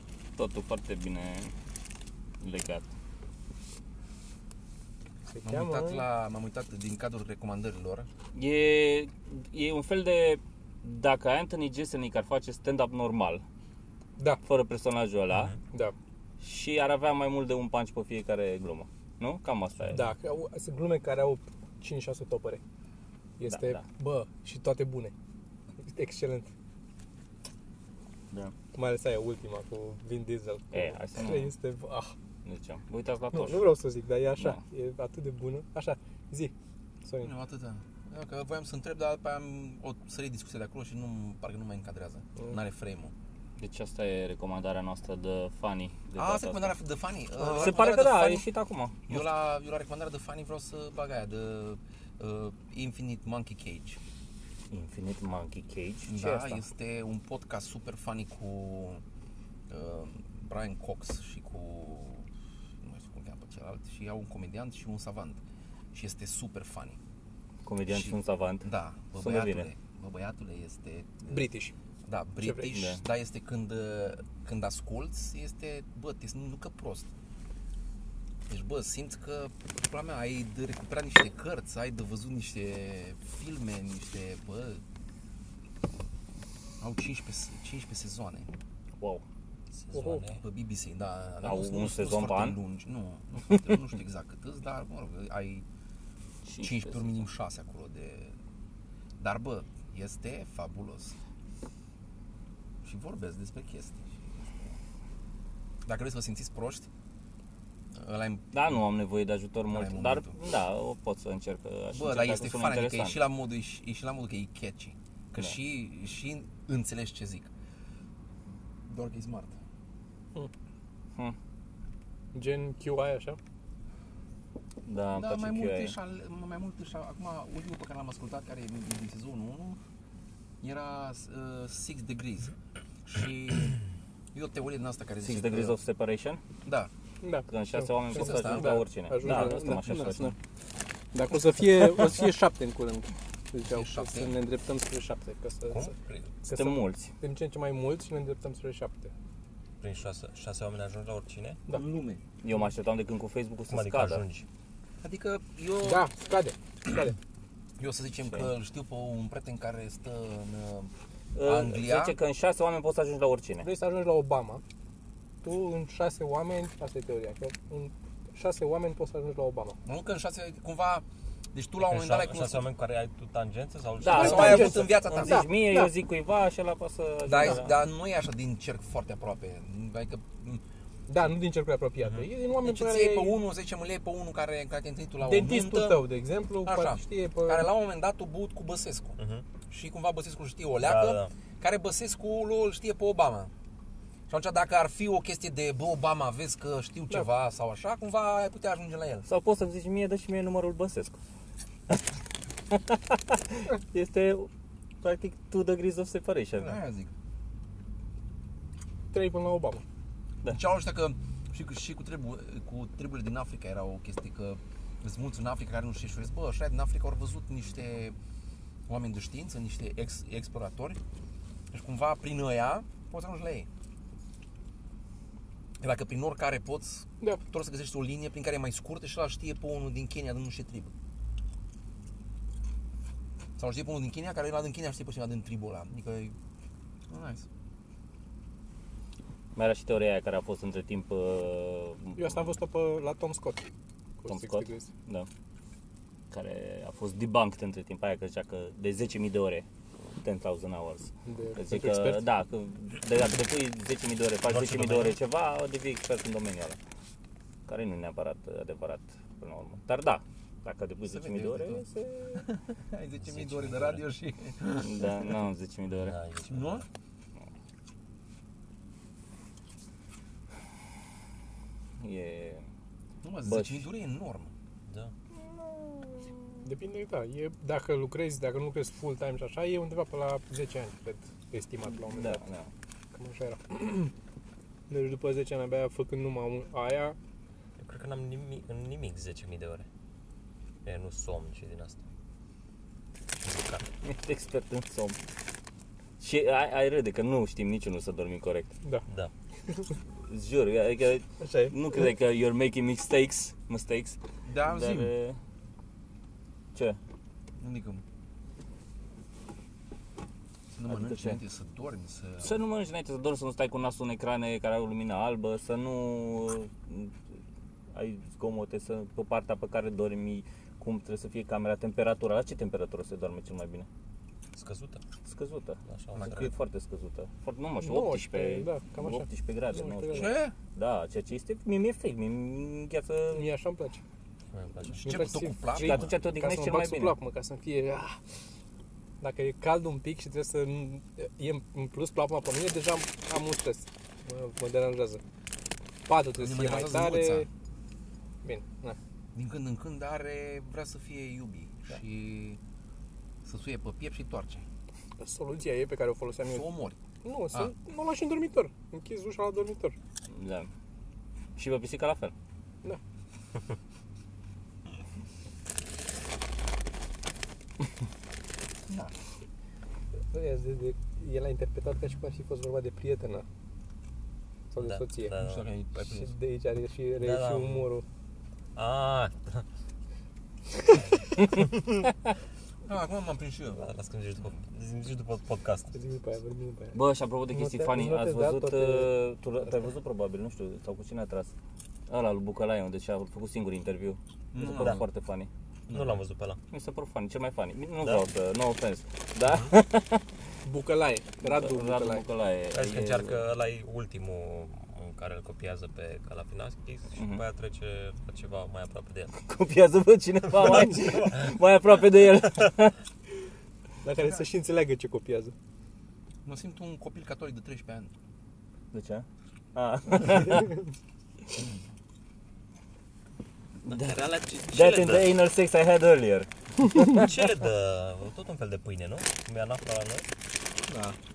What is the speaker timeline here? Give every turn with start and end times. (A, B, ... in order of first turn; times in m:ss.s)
0:00.4-0:01.5 A
0:02.4-0:02.9 A
0:05.3-0:06.0 B
0:05.4-0:08.1 C
0:08.3-0:13.4 A
0:14.4-0:15.6 A
0:16.4-0:20.1 A
0:19.9-0:22.6 B
0:23.4-0:25.1 B
0:23.5-0:23.8 A
0:25.8-0:26.5 B
0:28.7-0:32.1 B
0:30.7-0:31.5 A
0:32.4-0:33.7 A
0:33.3-0:36.5 B
0:37.0-0:37.3 B
0:37.2-0:43.1 C
0:43.6-0:46.8 A
0:46.2-0:48.4 C
0:47.4-0:47.7 B
0:47.5-0:49.1 A
0:49.1-0:54.0 C
0:54.7-0:56.6 A
0:56.1-0:59.0 C
0:59.7-1:02.3 C
1:02.8-1:05.4 C
1:05.9-1:07.0 C
1:07.6-1:09.7 A
1:07.9-1:11.5 C
1:11.3-1:11.7 B
1:12.0-1:17.1 C
1:12.4-1:12.7 B
1:12.7-1:13.0 A
1:18.5-1:24.8 C
1:26.8-1:28.5 C
1:29.0-1:29.2 A
1:29.7-1:30.4 D
1:29.9-1:30.2 B
1:30.4-1:35.6 C
1:31.4-1:32.6 A
1:36.4-1:37.2 A
1:36.6-1:38.4 C
1:39.2-1:41.1 C
1:42.8-1:44.4 C
1:45.9-1:46.9 C
1:47.9-1:48.6 C
1:48.5-1:53.2 A
1:49.7-1:50.4 C
1:51.9-1:57.5 C
1:58.9-1:59.6 C
2:02.3-2:03.4 B
2:04.8-2:06.0 A
2:05.2-2:09.8 C
2:10.6-2:12.5 C
2:13.0-2:13.8 C
2:14.3-2:15.8 C
2:15.2-2:16.4 A
2:16.6-2:16.9 C
2:17.2-2:20.4 B
2:17.5-2:20.4 A
2:18.1-2:18.8 C
2:21.1-2:25.9 B
2:23.6-2:24.4 C
2:25.7-2:26.3 D
2:26.4-2:29.1 B
2:26.5-2:27.1 A
2:29.8-2:31.6 D
2:31.7-2:32.2 C
2:32.4-2:34.2 A
2:33.7-2:34.5 D
2:35.0-2:36.1 C
2:35.8-2:37.2 B
2:37.8-2:42.2 C
2:41.4-2:43.7 A
2:43.6-2:44.6 B
2:45.4-2:49.8 B
2:49.8-2:52.7 C
2:51.8-2:54.8 D
2:54.0-2:57.8 A
2:54.1-2:55.5 C
2:54.1-2:55.9 B
2:57.3-3:00.6 C
3:01.1-3:03.4 B
3:02.6-3:06.1 C
3:05.2-3:07.7 B
3:06.6-3:09.2 C
3:09.2-3:09.4 D
3:09.7-3:13.5 C
3:10.8-3:11.3 D
3:14.3-3:19.3 C
3:19.3-3:21.2 A
3:22.7-3:24.5 A
3:25.0-3:26.8 A
3:26.6-3:27.1 C
3:29.1-3:29.8 B
3:30.4-3:38.1 C
3:38.9-3:41.0 C
3:41.7-3:43.7 C
3:45.8-3:50.9 C
3:53.6-3:56.4 C
3:57.1-3:57.4 C
3:59.6-4:02.5 A
4:02.2-4:03.6 B
4:04.2-4:04.9 B
4:04.3-4:05.3 A
4:06.3-4:09.6 A
4:10.2-4:16.8 A
4:11.3-4:12.2 B
4:14.4-4:15.2 D
4:17.6-4:22.5 A
4:21.1-4:25.2 C
4:23.2-4:24.0 D
4:24.8-4:26.2 A
4:25.9-4:26.9 D
4:26.5-4:26.8 C
4:32.0-4:32.7 A
4:33.2-4:34.5 C
4:33.4-4:33.9 A
4:34.9-4:35.1 D
4:35.4-4:36.6 A
4:36.6-4:42.4 B
4:41.9-4:42.7 A
4:43.1-4:44.1 B
4:44.9-4:47.2 B
4:47.8-4:49.9 D
4:50.8-4:52.0 D
4:53.4-4:53.8 D
4:54.0-4:55.2 A
4:56.2-4:58.7 A
5:00.1-5:05.4 A
5:01.4-5:02.0 B
5:04.4-5:05.1 C
5:06.7-5:07.0 A
5:07.6-5:08.0 C
5:10.7-5:12.6 C
5:10.9-5:11.4 A
5:12.4-5:17.4 A
5:17.9-5:23.9 A
5:24.5-5:25.0 D
5:25.2-5:33.5 A
5:25.9-5:26.5 D
5:26.1-5:26.5 C
5:27.8-5:30.4 B
5:30.1-5:30.5 C
5:33.3-5:34.0 B
5:34.5-5:35.0 D
5:34.9-5:36.1 C
5:35.0-5:38.2 B
5:35.7-5:37.2 A
5:39.2-5:45.2 B
5:46.1-5:47.5 B
5:46.4-5:47.5 C
5:48.4-5:49.0 B
5:49.3-5:52.6 C
5:53.4-5:54.6 C
5:55.2-5:56.6 B
5:56.4-5:57.0 C
5:57.2-6:00.0 B
6:00.3-6:00.7 A
6:01.6-6:02.3 A
6:08.9-6:09.1 C
6:10.3-6:13.4 B
6:14.7-6:15.4 B
6:14.8-6:15.7 D
6:15.3-6:16.3 C
6:16.0-6:18.0 B
6:17.2-6:17.9 D
6:18.8-6:19.6 D
6:22.9-6:23.9 C
6:23.8-6:25.9 D
6:25.9-6:27.0 B
6:26.9-6:31.5 A
6:27.5-6:29.1 B
6:32.1-6:35.5 A
6:34.5-6:35.0 C
6:35.9-6:36.2 C
6:35.9-6:36.6 D
6:36.7-6:40.3 A
6:39.4-6:39.7 D
6:40.6-6:42.2 B
6:41.4-6:43.4 A
6:42.7-6:49.4 D
6:47.2-6:47.4 A
6:49.4-6:52.9 A
6:50.6-6:51.5 D
6:54.0-6:55.6 B
6:54.2-6:54.4 C
6:56.4-6:58.1 C
6:58.9-7:00.8 A
7:03.8-7:07.3 A
7:03.9-7:05.3 D
7:07.1-7:10.3 D
7:10.9-7:11.2 C